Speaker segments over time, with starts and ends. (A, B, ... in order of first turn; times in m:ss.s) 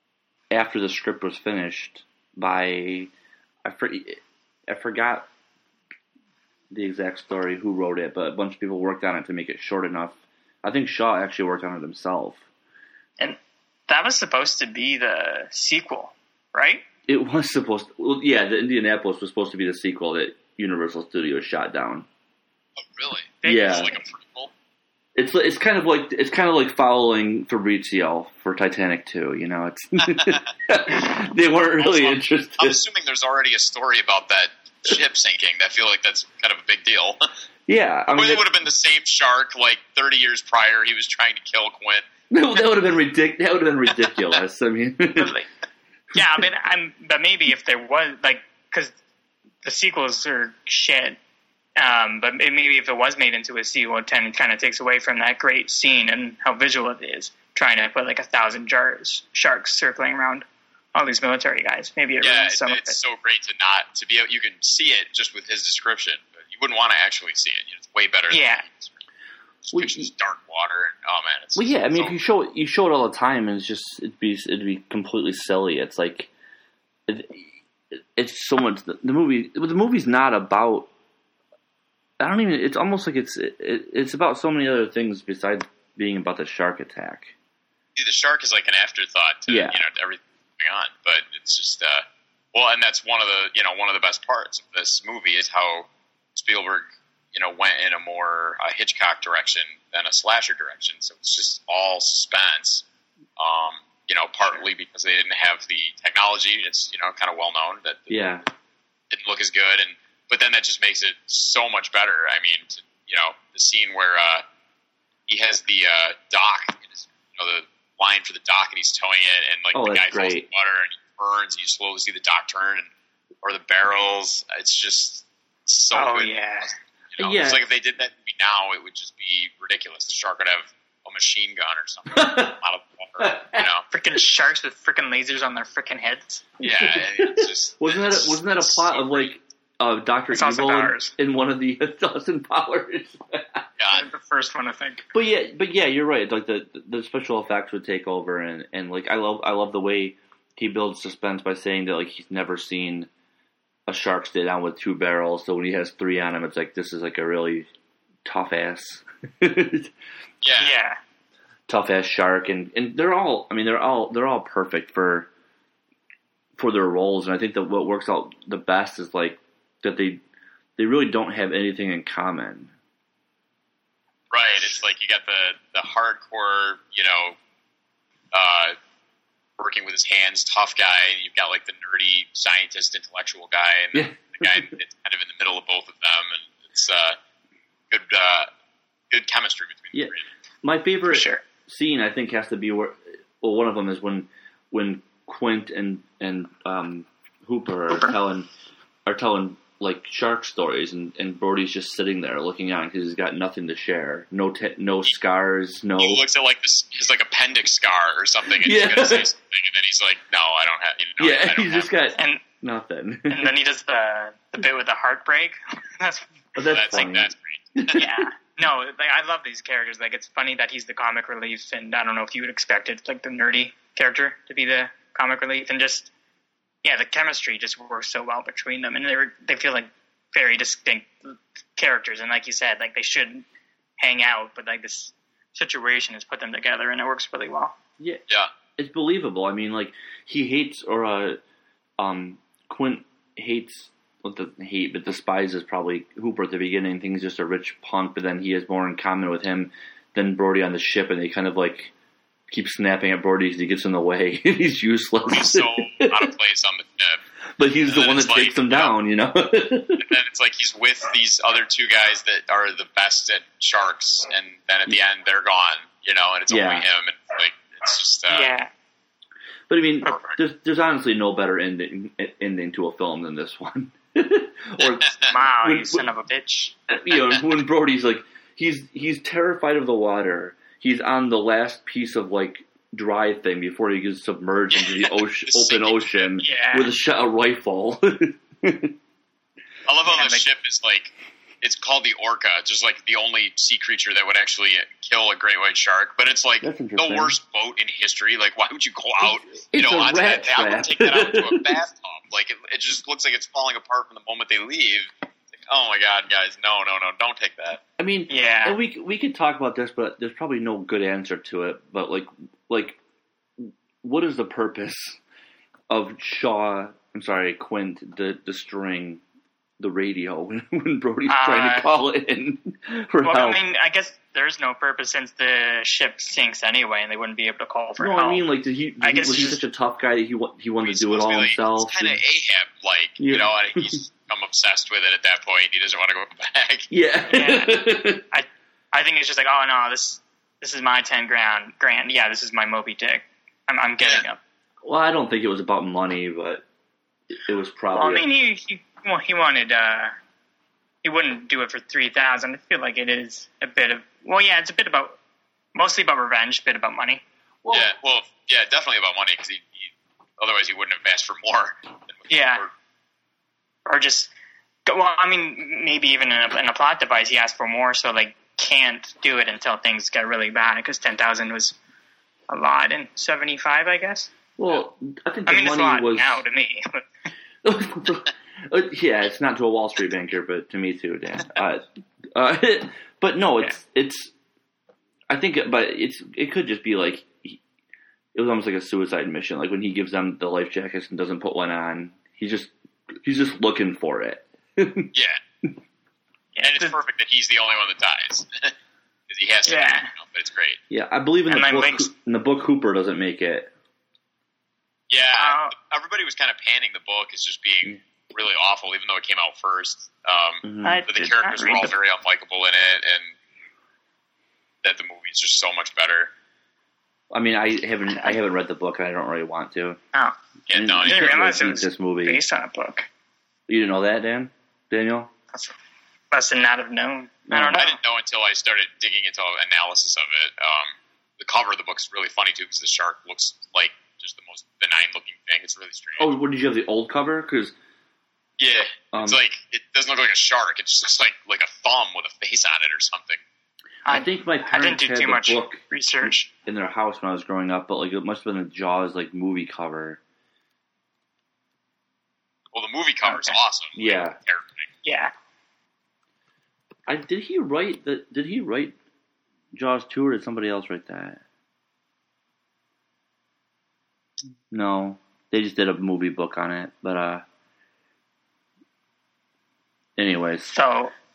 0:00.5-0:03.1 A
0:03.6-0:05.3 A
0:06.7-0:12.4 A
0:13.2-0:16.8 B
0:17.1-0:22.1 A
0:22.8-0:24.5 C
0:23.4-0:23.9 B
0:23.4-0:23.9 A
0:25.2-0:32.8 A
0:30.1-0:30.4 C
0:31.8-0:37.2 C
0:37.7-0:38.4 A
0:38.1-0:42.0 C
0:42.3-0:45.4 A
0:45.2-0:45.5 B
0:46.1-0:48.9 B
0:49.6-0:51.2 B
0:51.8-1:03.0 B
1:02.2-1:09.0 C
1:08.3-1:08.6 B
1:09.6-1:12.2 C
1:09.7-1:10.1 A
1:11.6-1:16.3 A
1:17.1-1:17.5 A
1:18.2-1:20.9 A
1:22.2-1:27.3 A
1:28.0-1:42.8 C
1:29.5-1:29.8 A
1:43.4-1:48.3 C
1:48.1-1:48.4 A
1:49.1-1:54.4 C
1:55.3-2:02.9 C
1:59.7-2:00.5 A
2:03.4-2:13.9 C
2:05.9-2:06.7 B
2:07.2-2:07.6 A
2:12.1-2:12.6 A
2:13.2-2:13.7 A
2:13.9-2:16.5 B
2:16.6-2:19.3 C
2:16.6-2:23.7 A
2:20.3-2:21.1 B
2:23.8-2:24.1 C
2:23.9-2:25.0 B
2:25.1-2:33.1 A
2:33.9-2:37.7 A
2:38.2-2:39.9 A
2:40.4-2:40.7 C
2:40.6-2:41.0 B
2:41.7-2:45.3 A
2:46.6-2:50.2 A
2:50.8-2:52.7 A
2:54.3-2:57.4 C
2:58.3-2:58.8 C
2:59.6-3:07.2 C
3:03.9-3:04.7 A
3:07.9-3:08.5 C
3:09.1-3:10.2 C
3:09.9-3:18.5 A
3:11.1-3:11.4 B
3:19.1-3:26.2 A
3:26.0-3:31.9 C
3:28.6-3:29.3 A
3:31.2-3:33.5 A
3:32.2-3:32.4 B
3:33.3-3:36.4 B
3:36.6-3:38.2 A
3:36.7-3:38.0 C
3:37.9-3:46.1 B
3:46.8-3:53.4 B
3:54.0-3:57.8 B
3:58.8-4:01.4 A
4:02.0-4:11.9 A
4:12.5-4:16.3 A
4:15.3-4:17.2 C
4:17.6-4:20.0 A
4:17.9-4:19.0 C
4:20.0-4:28.5 C
4:26.5-4:26.8 A
4:28.3-4:28.7 B
4:29.7-4:36.1 A
4:30.0-4:30.4 C
4:35.2-4:36.8 B
4:36.9-4:49.0 A
4:44.7-4:46.4 C
4:46.4-4:46.9 B
4:49.9-5:05.1 C
4:50.1-4:50.5 B
4:56.6-4:57.4 A
4:59.2-5:01.8 A
5:05.6-5:07.8 C
5:08.0-5:13.0 A
5:08.3-5:08.8 B
5:13.6-5:15.2 A
5:15.9-5:19.2 A
5:19.8-5:23.6 A
5:21.3-5:21.9 B
5:23.2-5:28.5 B
5:28.0-5:32.2 A
5:29.0-5:29.6 B
5:30.8-5:36.9 C
5:33.2-5:34.0 A
5:36.9-5:38.2 A
5:37.3-5:44.4 B
5:44.8-5:46.6 A
5:47.3-5:48.3 A
5:47.9-5:50.2 B
5:51.0-5:55.2 B
5:55.8-5:57.2 B
5:57.6-5:57.9 A
5:57.7-6:02.7 C
6:02.3-6:02.6 B
6:03.9-6:04.3 B
6:04.9-6:11.8 B
6:12.5-6:14.3 B
6:14.6-6:16.4 A
6:15.5-6:17.1 B
6:17.6-6:24.3 A
6:25.3-6:27.6 A
6:28.3-6:35.1 A
6:35.1-6:35.4 C
6:36.6-6:37.0 B
6:36.6-6:38.7 C
6:39.3-6:40.8 C
6:39.7-6:40.1 B
6:40.9-6:43.7 A
6:41.5-6:42.1 B
6:45.1-6:53.4 C
6:45.4-6:45.7 B
6:50.6-6:51.0 A
6:50.8-6:51.9 B
6:54.8-6:56.3 C
6:57.3-7:00.0 A
6:58.1-6:58.4 B
7:00.7-7:01.3 C
7:00.7-7:02.4 A
7:01.0-7:03.1 B
7:03.7-7:05.3 A
7:06.3-7:08.0 B
7:07.5-7:07.8 A
7:07.8-7:16.3 C
7:16.2-7:17.7 A
7:18.6-7:23.4 C
7:19.1-7:19.4 A
7:24.1-7:26.5 B
7:24.1-7:30.2 A
7:32.7-7:34.9 C
7:33.3-7:33.6 B
7:34.0-7:34.4 A
7:35.0-7:35.3 B
7:37.1-7:39.0 A
7:39.7-7:41.4 A
7:44.7-7:47.4 A
7:50.2-7:50.7 A
7:50.7-7:51.1 B